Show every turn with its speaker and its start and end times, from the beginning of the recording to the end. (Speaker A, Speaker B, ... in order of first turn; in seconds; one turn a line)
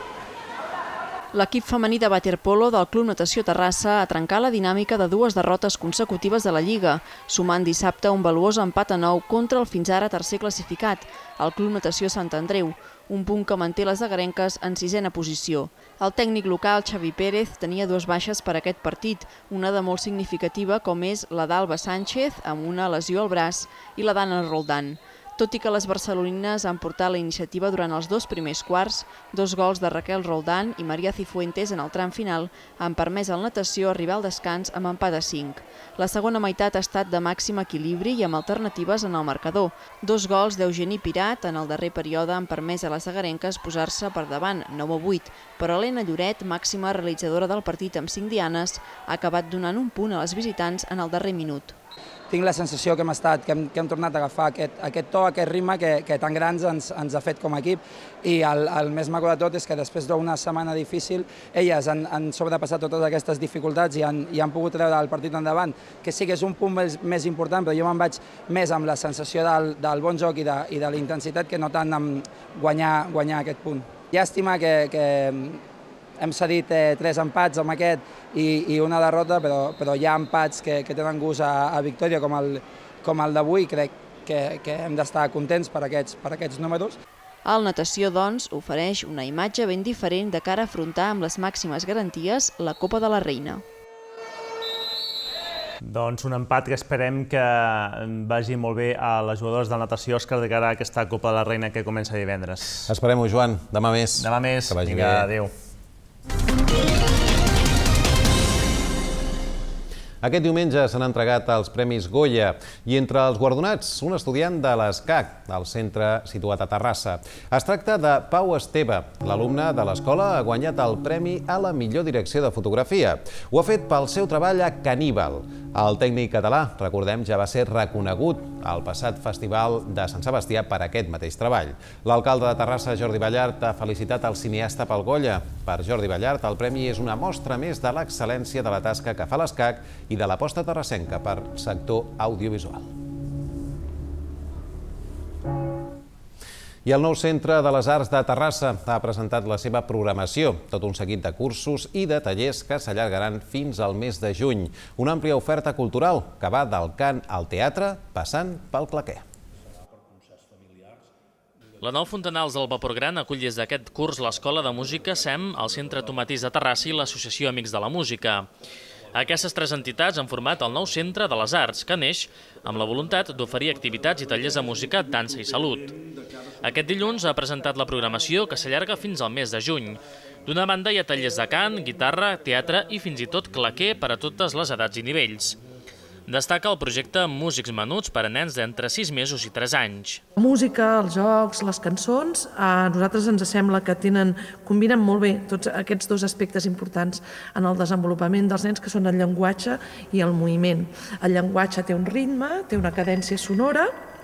Speaker A: 1.3-51.8
Speaker B: 52.3-75.6
Speaker B: 76.2-87.0
Speaker A: 87.4-93.6
Speaker C: 95.8-102.9
Speaker D: 102.9-105.3
Speaker C: 104.2-105.5
Speaker D: 110.2-142.9
Speaker D: 146.8-159.2
Speaker E: 161.8-168.5
Speaker E: 169.1-175.9
Speaker E: 176.6-185.6
Speaker E: 186.3-190.2
Speaker F: 190.3-203.9